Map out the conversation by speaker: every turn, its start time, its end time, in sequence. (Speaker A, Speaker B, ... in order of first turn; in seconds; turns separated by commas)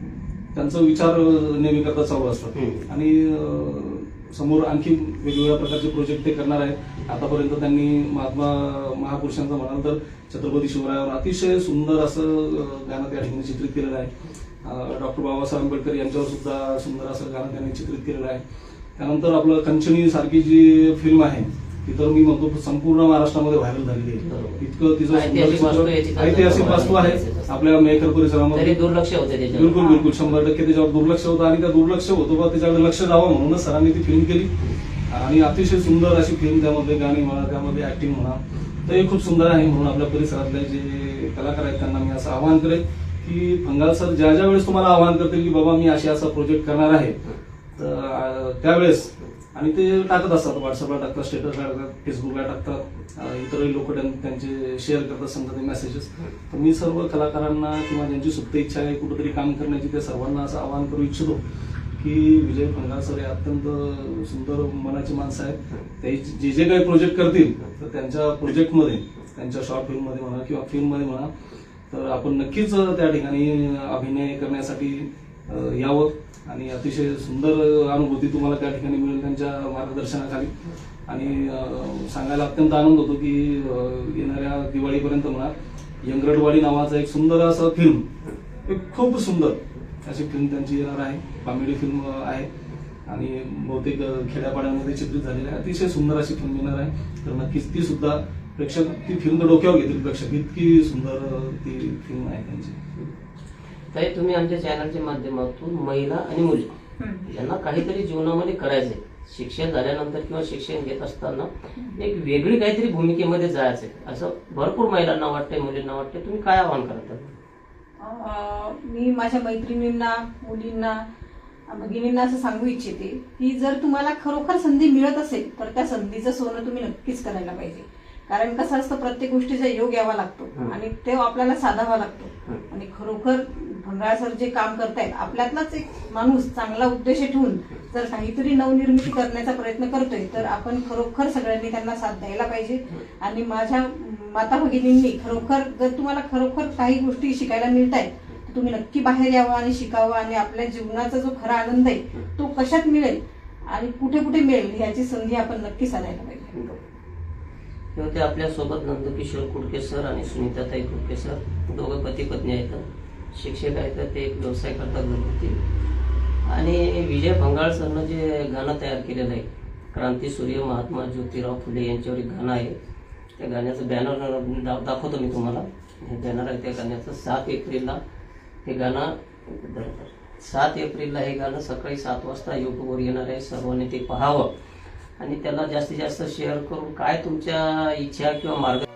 Speaker A: 0.5-14.1, Speaker B: 2.5-2.9, Speaker A: 14.6-18.4, Speaker A: 19.0-28.8, Speaker B: 24.2-27.6, Speaker B: 28.5-29.9, Speaker A: 29.5-34.5, Speaker C: 29.8-30.1, Speaker A: 35.1-47.2, Speaker A: 47.7-61.4, Speaker A: 62.0-71.3, Speaker A: 71.9-80.5, Speaker A: 81.1-85.5, Speaker A: 86.0-88.0, Speaker A: 88.7-92.5, Speaker A: 93.1-102.8, Speaker B: 103.9-117.3, Speaker C: 118.0-121.0, Speaker C: 121.7-156.5, Speaker B: 156.5-156.8, Speaker B: 157.9-165.6, Speaker B: 166.4-172.8, Speaker B: 173.4-178.0, Speaker B: 178.6-184.5, Speaker B: 185.2-188.8